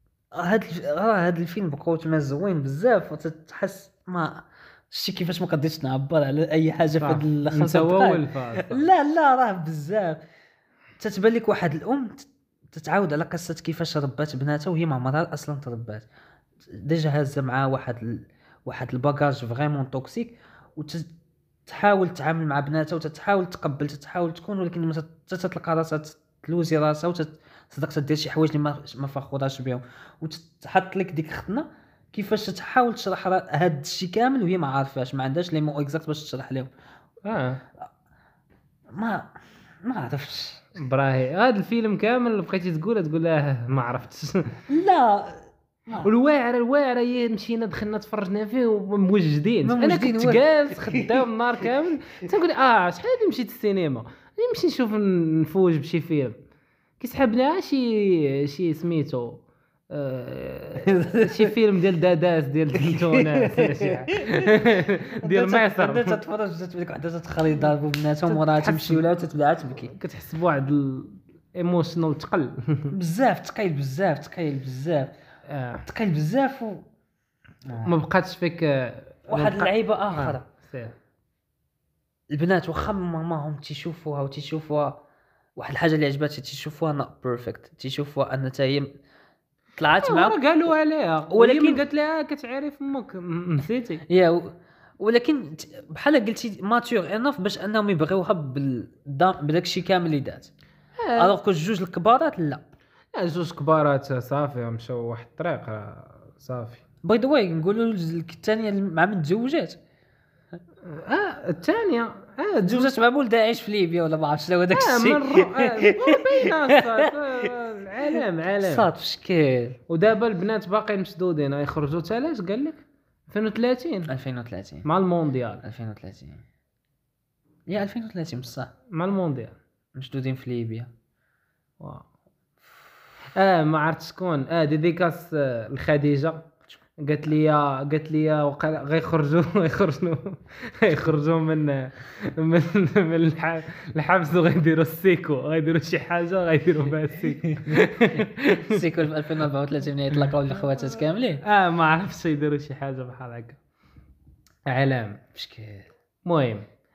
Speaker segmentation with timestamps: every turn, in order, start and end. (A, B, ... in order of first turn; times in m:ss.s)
0:00.3-0:10.2 A
0:07.0-0:08.9 B
0:11.0-0:16.0 A
0:16.7-0:21.1 A
0:21.7-0:36.7 A
0:37.2-0:37.6 B
0:38.9-0:40.6 A
0:40.8-0:44.5 B
0:44.7-0:46.1 A
0:46.0-0:56.4 B
0:49.6-0:51.2 A
0:57.0-1:06.2 B
1:00.8-1:01.5 A
1:02.7-1:09.9 A
1:08.2-1:09.0 B
1:09.9-1:12.9 B
1:12.9-1:15.1 A
1:15.5-1:15.8 B
1:15.8-1:16.8 A
1:17.6-1:17.9 A
1:17.8-1:20.9 B
1:19.3-1:20.4 A
1:22.3-1:25.0 A
1:25.6-1:28.9 A
1:29.8-1:30.7 A
1:30.0-1:34.0 B
1:31.3-1:31.8 A
1:34.1-1:40.5 A
1:41.0-1:41.3 B
1:41.2-1:42.6 A
1:43.1-1:46.8 B
1:47.0-1:49.8 A
1:50.8-1:52.9 B
1:52.6-1:57.5 A
1:54.7-1:58.9 B
1:58.1-1:59.8 A
1:59.9-2:04.1 B
2:04.1-2:04.8 A
2:04.8-2:05.6 B
2:05.6-2:06.4 A
2:07.7-2:08.7 A
2:08.9-2:09.6 B
2:09.9-2:10.9 A
2:11.8-2:12.0 B
2:13.3-2:16.5 B
2:17.0-2:28.8 B
2:27.2-2:31.4 A
2:31.4-2:33.6 B
2:34.7-2:35.2 B
2:35.3-2:35.9 A
2:36.2-2:36.7 B